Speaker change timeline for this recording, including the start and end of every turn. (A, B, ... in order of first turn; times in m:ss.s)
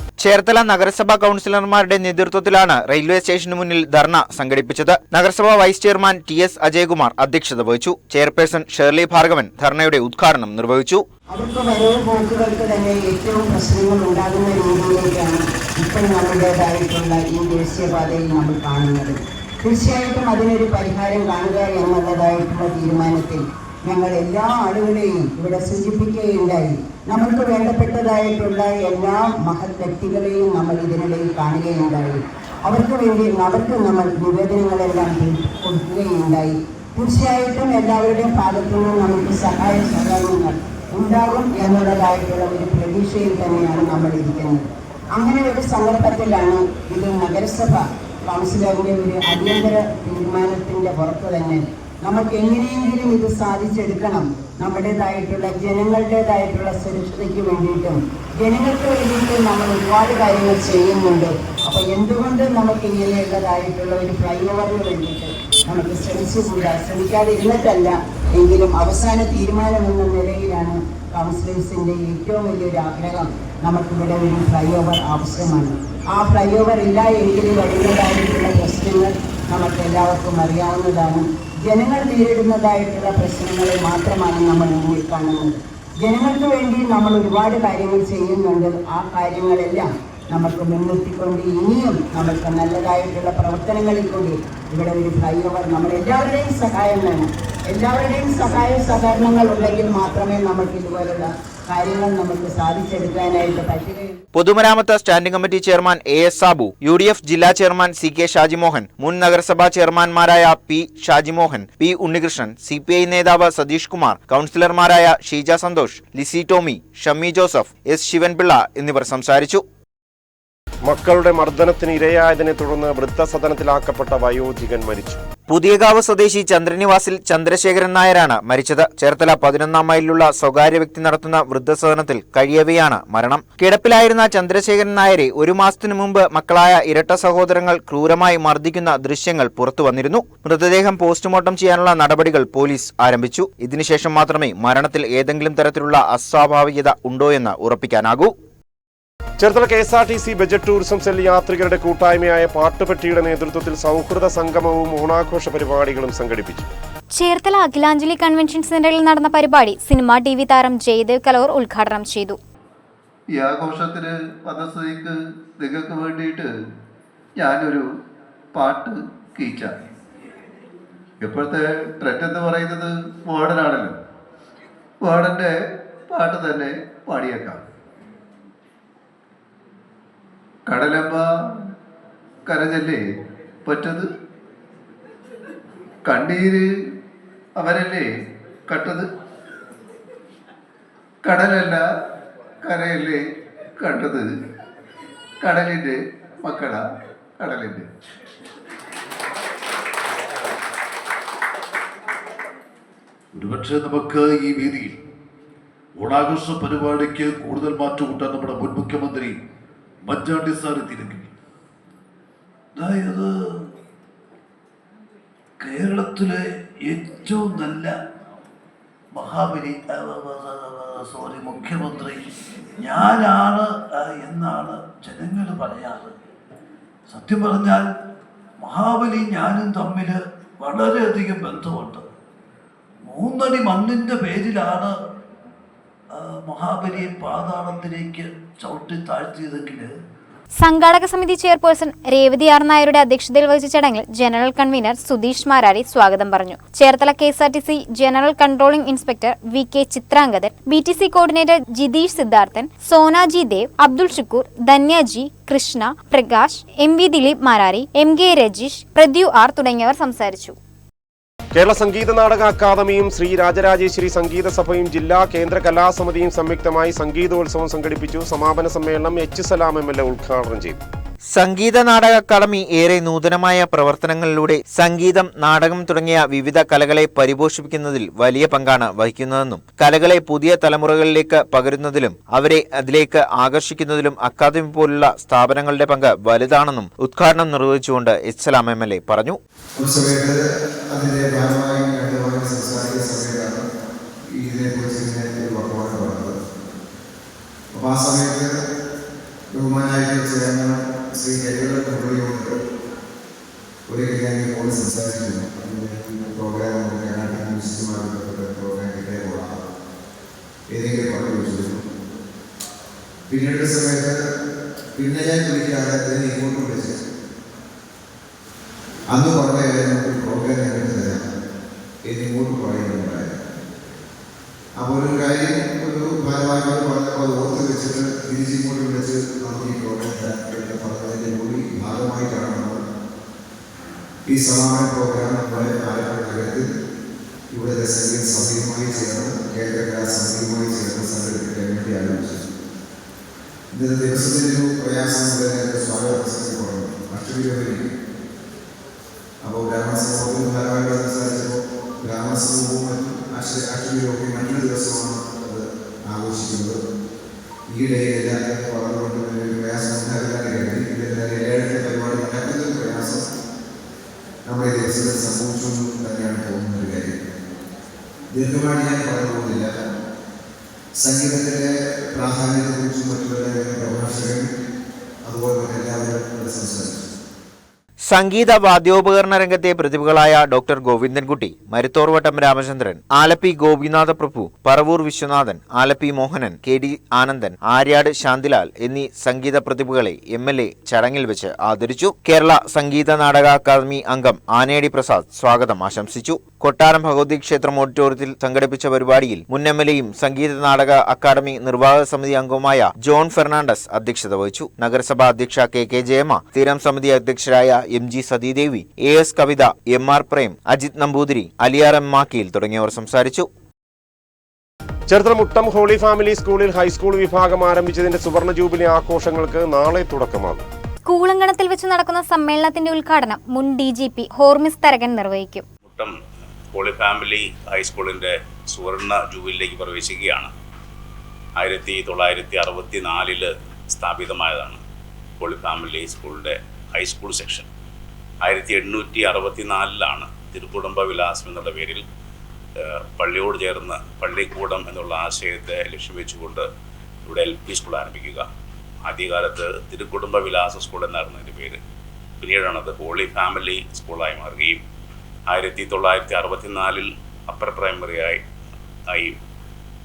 0:00.2-0:11.0 A
0:11.3-1:44.2 B
1:44.3-1:59.6 A
2:00.8-2:05.2 C
2:05.5-2:28.3 A
2:29.4-2:36.7 C
2:37.1-2:42.4 D
2:43.3-2:46.5 E
2:47.4-2:47.8 E
2:48.5-2:49.7 E
2:51.2-2:53.9 E
2:55.0-2:55.5 E
2:56.1-2:57.6 E
3:00.7-3:01.3 E
3:02.4-3:03.0 E
3:03.6-3:04.1 E
3:06.0-3:06.6 E
3:07.6-3:08.1 E
3:08.7-3:09.0 E
3:11.2-3:11.8 E
3:12.6-3:13.2 E
3:13.8-3:14.2 E
3:15.4-3:16.8 E
3:17.4-3:17.8 E
3:23.4-3:24.9 F
3:26.0-3:29.3 F
3:30.1-3:31.3 F
3:32.8-3:33.3 F
3:35.6-3:37.9 F
3:39.1-3:42.2 F
3:42.8-3:46.1 F
3:47.1-3:47.9 F
3:48.6-3:52.0 F
3:53.0-3:54.9 F
3:56.2-3:59.9 F
4:00.6-4:20.6 D
4:21.5-4:30.8 C
4:31.3-4:49.4 A
4:49.8-4:53.6 G
4:54.4-4:56.4 G
4:57.7-4:58.6 G
4:59.5-5:02.6 G
5:03.9-5:09.6 G
5:10.7-5:11.8 G
5:13.3-5:14.2 G
5:14.9-5:17.0 G
5:19.1-5:21.3 G
5:22.0-5:23.4 G
5:24.8-5:32.8 G
5:34.2-5:36.7 G
5:37.5-5:42.4 G
5:43.7-5:47.8 G
5:49.4-5:56.8 G
5:57.7-6:03.2 G
6:04.4-6:07.1 G
6:08.3-6:09.7 G
6:11.0-6:14.5 G
6:15.2-6:17.0 G
6:18.0-6:53.5 A
6:55.1-7:00.6 C
7:01.0-7:05.6 D
7:05.8-7:06.1 H
7:06.7-7:10.5 H
7:11.6-7:14.8 H
7:15.4-7:17.7 H
7:18.4-7:22.0 H
7:23.2-7:26.7 H
7:27.2-7:28.4 H
7:29.0-7:31.8 H
7:32.4-7:34.8 H
7:35.5-7:38.4 H
7:39.1-7:39.4 H